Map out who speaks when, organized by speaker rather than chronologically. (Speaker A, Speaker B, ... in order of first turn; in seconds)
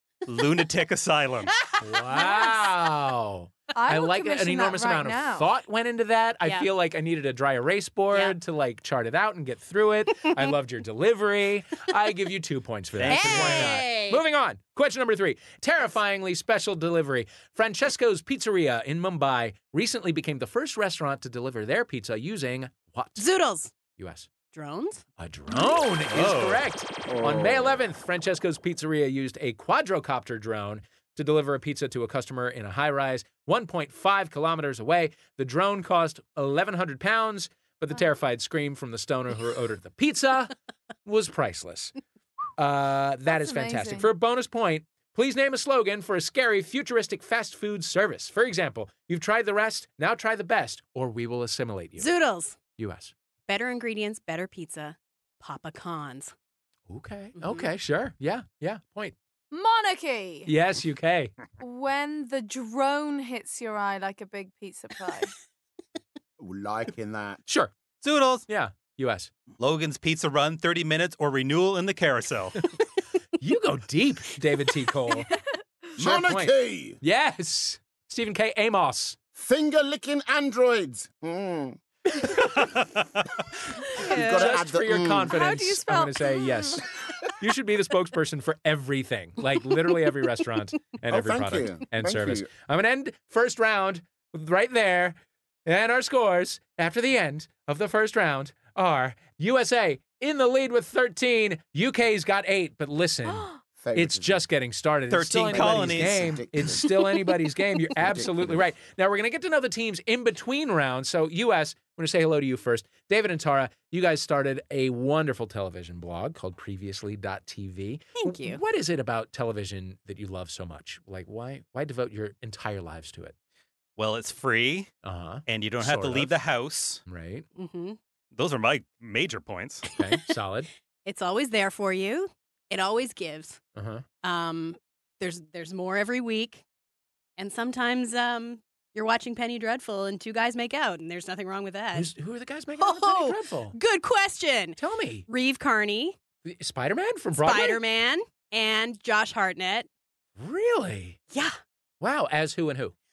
Speaker A: 0.2-1.5, 12.9-13.8, 26.1-26.6, 68.0-68.5, 69.6-72.6, 82.7-83.0, 105.1-106.3, 124.0-124.9, 125.5-127.0, 128.3-129.9
Speaker B: 1.8-23.2, 24.0-24.3, 25.2-40.5, 41.0-41.9, 42.6-52.1, 52.8-53.1, 56.9-59.1, 60.5-61.4, 67.5-67.7, 68.5-69.3, 73.4-75.3, 76.0-79.2, 82.2-82.5, 84.2-86.8, 87.4-123.3, 125.0-126.4, 127.0-127.5, 129.9-130.7, 133.8-134.0, 141.9-143.8, 144.8-145.2, 146.4-147.8, 150.4-151.2, 152.0-152.9
Speaker C: 2.3-2.6, 3.7-5.5, 43.3-44.1, 59.5-60.5, 61.6-65.3, 75.1-75.4, 84.0-84.6, 85.3-86.8
Speaker D: 13.1-14.2, 23.2-23.7, 24.5-25.0, 52.0-52.6, 53.5-56.3, 57.4-57.7, 118.2-118.6, 127.5-128.0, 131.0-133.6, 134.2-136.6, 137.4-142.1, 142.8-146.2, 147.4-149.9, 151.3-151.6
Speaker E: 27.1-27.8, 66.4-67.4, 76.0-77.0, 79.4-81.8, 83.9-85.4, 91.1-92.5, 103.8-104.5, 105.5-106.9, 107.9-108.6